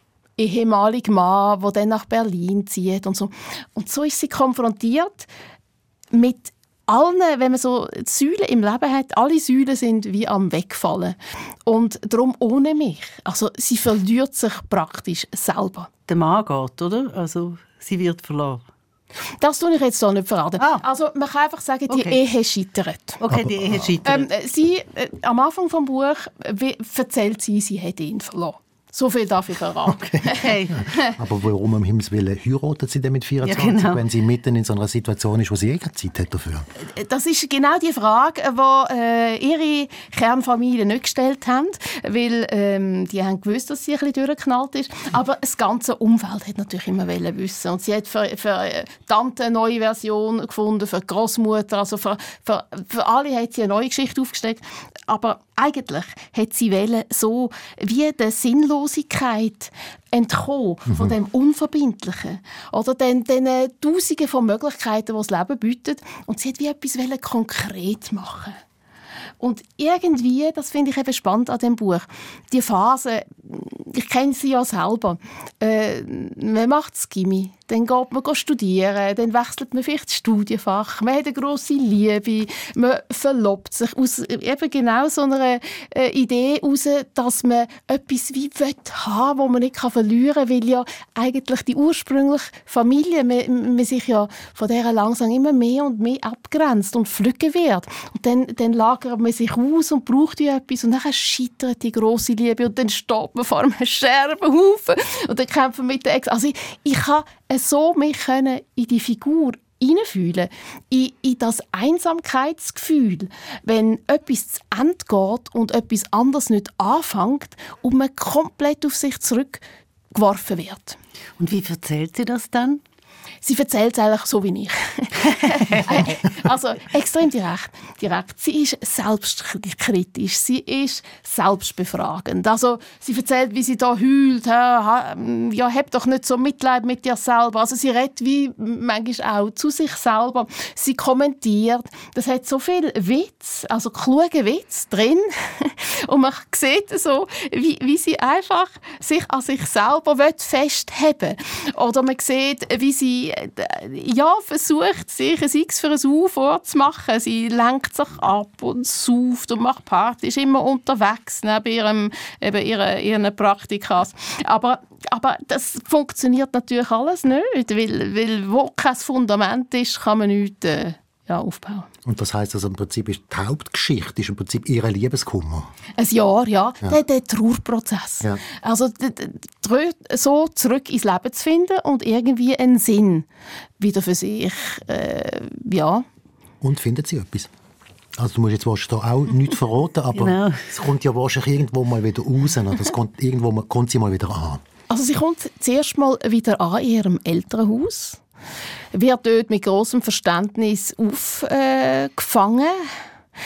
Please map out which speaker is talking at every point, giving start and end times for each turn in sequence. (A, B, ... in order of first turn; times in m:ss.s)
0:00.4-0:05.3 A
0:06.1-0:15.9 A
0:16.1-0:18.6 B
0:19.4-0:23.2 A
0:21.9-0:22.2 B
0:23.2-0:24.3 B
0:23.3-0:23.8 C
0:24.0-0:31.0 A
0:29.9-0:30.2 C
0:30.4-0:30.8 B
0:31.0-0:36.7 C
0:33.4-0:34.0 B
0:36.8-1:08.6 A
1:09.4-1:59.6 A
2:00.1-2:01.0 A
2:01.4-2:02.8 B
2:03.4-2:51.9 A
2:52.0-2:55.7 C
2:56.0-3:03.3 A
3:03.8-3:06.0 A
3:06.6-3:07.5 C
3:08.2-3:14.6 C
3:10.2-3:10.6 B
3:14.9-3:18.2 A
3:18.9-3:22.9 A